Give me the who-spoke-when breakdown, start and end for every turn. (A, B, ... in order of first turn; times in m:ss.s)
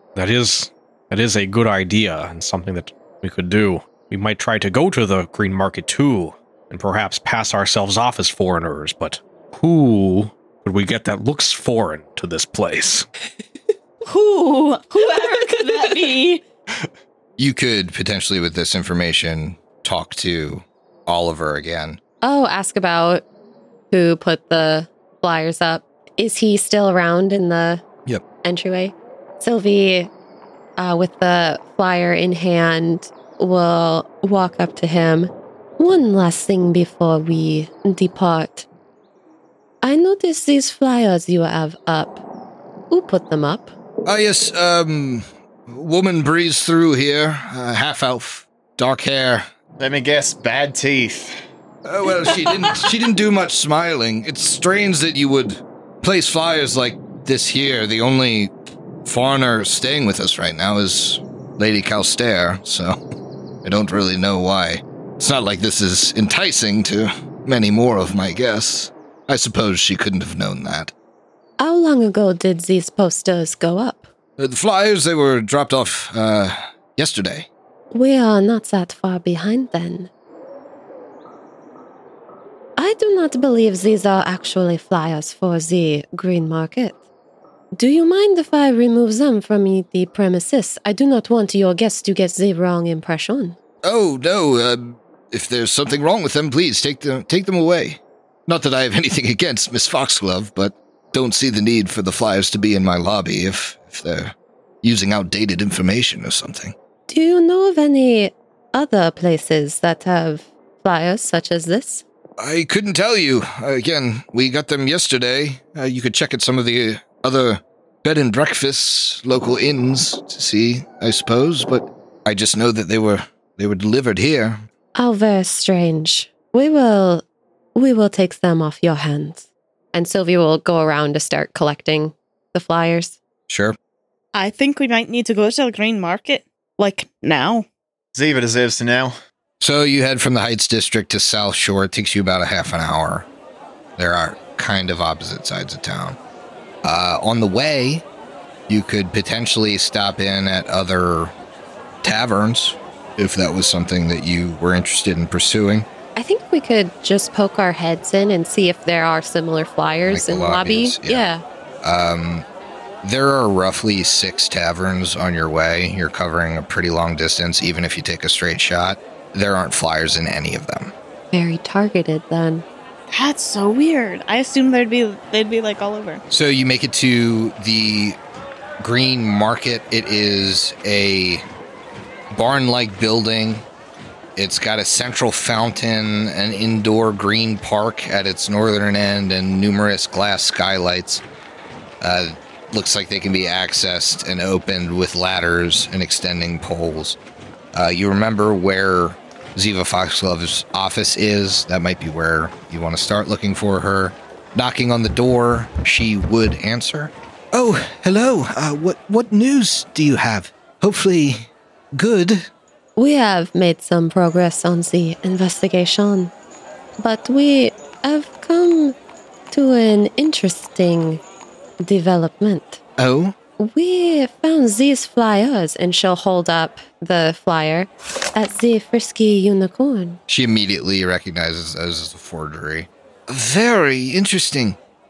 0:00.2-0:13.1 A
0:14.0-0:16.4 B
0:17.4-0:22.0 C
0:22.2-0:23.2 D
0:23.9-0:27.8 D
0:28.4-0:30.1 D
0:30.8-0:38.6 D
0:39.8-0:42.2 D
0:42.9-0:43.7 D
0:44.0-0:49.5 C
0:49.8-0:51.3 E
0:51.8-0:58.5 C
0:59.0-1:03.0 C
1:03.6-1:10.9 C
1:11.6-1:14.1 D
1:14.4-1:17.5 C
1:17.9-1:20.1 D
1:22.8-1:27.0 D
1:27.7-1:33.6 D
1:33.8-1:46.7 C
1:47.1-1:52.0 D
1:52.4-2:04.6 C
2:05.0-2:07.2 D
2:07.7-2:13.2 D
2:13.5-2:13.8 C
2:14.3-2:17.6 B
2:18.1-2:19.2 E
2:19.6-2:23.3 C
2:24.0-2:26.2 C
2:26.8-2:28.0 C
2:28.7-2:31.3 C
2:32.0-2:35.9 C
2:36.2-2:41.4 D
2:40.0-2:41.3 C
2:41.8-2:42.4 C
2:43.0-2:50.9 C
2:51.3-2:52.6 D
2:53.1-2:56.2 B
2:56.3-2:58.2 C
2:58.8-3:01.4 C
3:02.3-3:03.6 C
3:04.4-3:11.2 C
3:12.0-3:17.2 C
3:17.7-3:32.5 C
3:33.0-3:36.3 D
3:37.0-3:39.0 D
3:39.5-3:41.2 D
3:41.8-3:42.8 D
3:43.0-3:43.4 C
3:43.6-3:50.2 D
3:50.3-3:54.8 C